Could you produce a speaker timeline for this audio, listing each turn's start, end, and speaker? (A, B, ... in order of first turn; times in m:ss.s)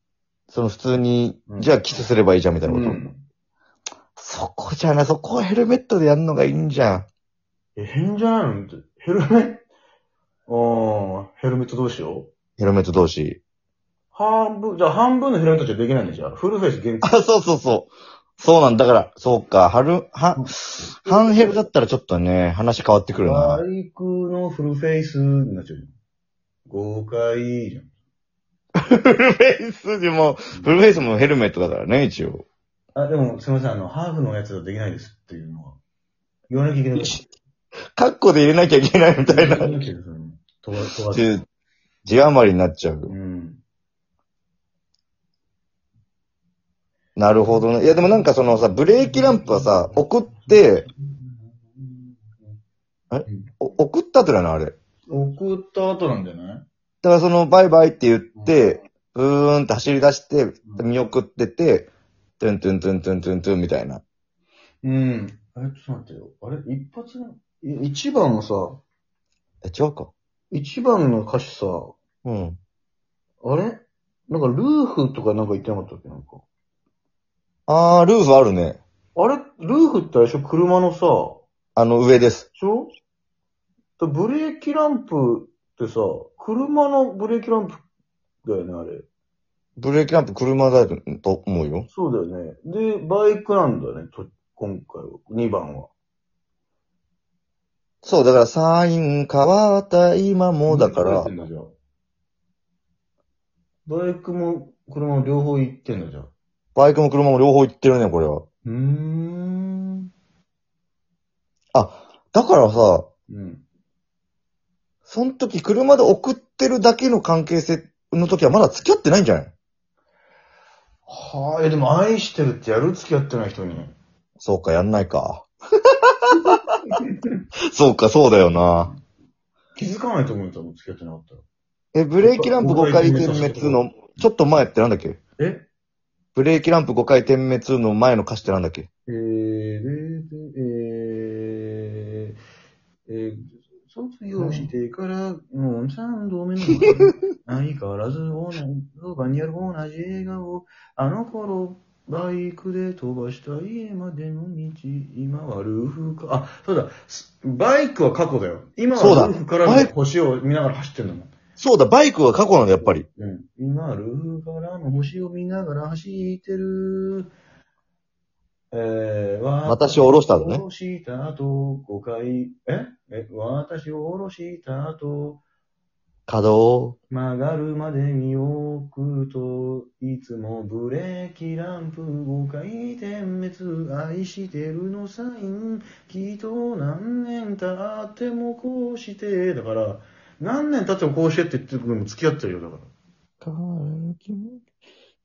0:00.5-0:03.0 A
0:01.5-0:01.8 B
0:02.7-0:03.2 B
0:04.2-0:07.1 A
0:07.8-0:09.6 B
0:10.5-0:12.3 B
0:12.6-0:13.4 A
0:14.1-0:17.1 B
0:17.0-0:23.6 A
0:20.4-0:21.6 B
0:23.2-0:25.9 B
0:26.7-0:27.9 B
0:28.8-0:32.4 A
0:33.0-0:35.8 B
0:36.5-0:37.2 B
0:37.0-0:37.2 A
0:38.0-0:39.8 A
0:39.3-0:41.3 B
0:41.1-0:41.5 A
0:42.0-0:43.1 A
0:43.1-0:43.6 B
0:47.2-0:50.9 A
0:47.5-0:52.6 B
0:53.1-0:54.8 A
0:55.1-0:56.6 B
0:57.0-1:04.0 A
1:04.8-1:08.8 B
1:09.6-1:10.1 A
1:10.5-1:12.0 B
1:12.2-1:12.6 A
1:13.4-1:16.4 B
1:17.7-1:18.8 A
1:19.2-1:21.4 B
1:21.8-1:22.5 A
1:22.6-1:22.9 B
1:24.0-1:27.8 B
1:28.4-1:29.1 B
1:29.8-1:31.9 A
1:31.9-1:35.9 B
1:38.0-1:41.3 A
1:40.7-1:41.7 B
1:43.9-1:46.3 B
1:46.8-1:48.4 A
1:48.6-1:50.1 B
1:51.7-1:53.1 A
1:53.3-1:53.6 B
1:55.1-1:59.5 A
2:01.1-2:04.0 B
2:04.4-2:05.5 A
2:06.1-2:06.6 A
2:07.7-2:08.9 A
2:09.8-2:11.4 B
2:11.9-2:15.2 A
2:12.2-2:13.8 B
2:15.4-2:15.7 B
2:16.3-2:18.9 A
2:19.1-2:22.4 B
2:23.1-2:41.3 B
2:24.4-2:24.7 A
2:39.0-2:39.9 A
2:41.6-2:43.0 A
2:42.8-2:47.3 B
2:48.7-2:55.4 B
2:49.7-2:50.6 A
2:56.3-2:57.0 A
2:57.1-3:12.9 B
3:13.4-3:14.6 A